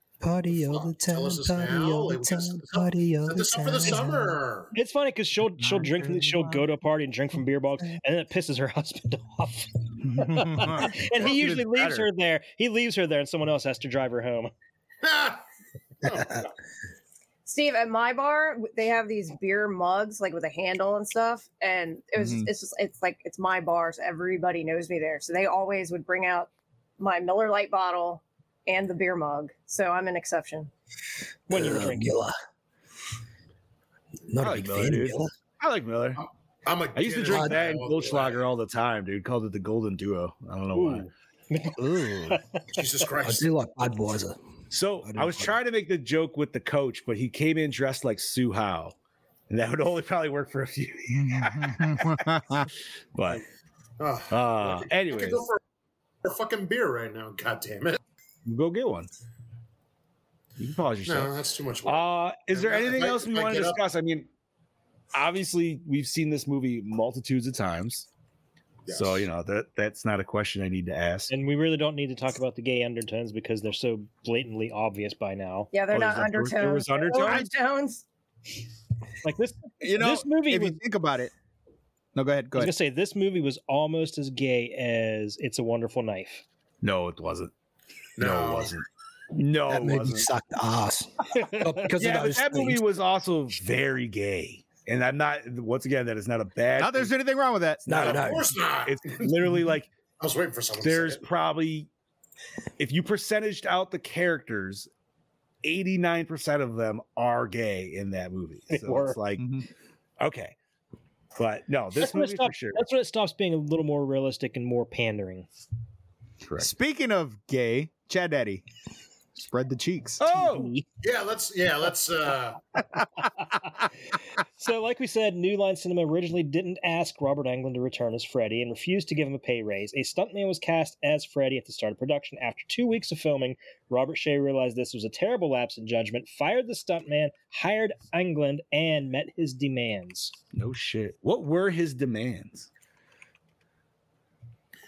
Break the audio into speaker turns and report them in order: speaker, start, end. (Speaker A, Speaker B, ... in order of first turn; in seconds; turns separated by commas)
Speaker A: 0.2-4.4, Speaker B: 0.7-4.7, Speaker C: 4.7-14.5, Speaker D: 5.7-6.5, Speaker D: 10.2-12.0, Speaker E: 11.2-11.9, Speaker B: 15.0-15.4, Speaker B: 16.0-16.5, Speaker F: 17.4-30.7, Speaker D: 22.2-22.5, Speaker C: 31.5-32.2, Speaker A: 31.5-32.3, Speaker A: 34.3-35.3, Speaker E: 34.4-36.2, Speaker B: 36.2-38.4, Speaker E: 36.9-41.1, Speaker A: 37.3-37.5, Speaker C: 40.7-42.6, Speaker D: 41.9-42.3, Speaker B: 42.7-43.5, Speaker A: 43.2-44.4, Speaker E: 44.7-48.9, Speaker A: 45.0-45.5, Speaker E: 49.5-52.3, Speaker D: 51.2-52.7, Speaker E: 53.1-53.4, Speaker B: 54.0-55.6, Speaker E: 54.3-55.4, Speaker B: 56.2-58.0, Speaker E: 58.5-59.1, Speaker E: 60.6-61.3, Speaker B: 61.0-63.8, Speaker E: 61.9-64.3, Speaker E: 65.1-68.1, Speaker B: 68.9-69.3, Speaker E: 68.9-71.3, Speaker C: 71.3-75.7, Speaker F: 75.7-78.0, Speaker E: 75.9-77.5, Speaker C: 79.2-80.8, Speaker D: 79.8-81.3, Speaker D: 82.1-82.7, Speaker C: 82.5-86.4, Speaker E: 86.8-87.5, Speaker B: 88.2-88.8, Speaker E: 88.2-90.3, Speaker A: 89.7-92.8, Speaker C: 91.4-91.9, Speaker E: 92.0-97.1, Speaker D: 96.8-98.1, Speaker A: 97.8-98.5, Speaker B: 97.9-99.3, Speaker E: 98.8-99.9, Speaker B: 100.2-101.2, Speaker E: 100.8-101.9, Speaker E: 102.8-104.9, Speaker E: 105.6-109.5, Speaker C: 108.7-109.2, Speaker D: 109.4-109.7, Speaker E: 110.2-110.5, Speaker E: 111.3-112.8, Speaker C: 112.0-115.5, Speaker E: 116.4-116.7, Speaker D: 116.6-118.6, Speaker D: 119.4-120.2, Speaker E: 120.2-120.7, Speaker C: 120.3-120.8, Speaker B: 121.0-122.6, Speaker C: 124.6-140.3, Speaker E: 140.5-142.7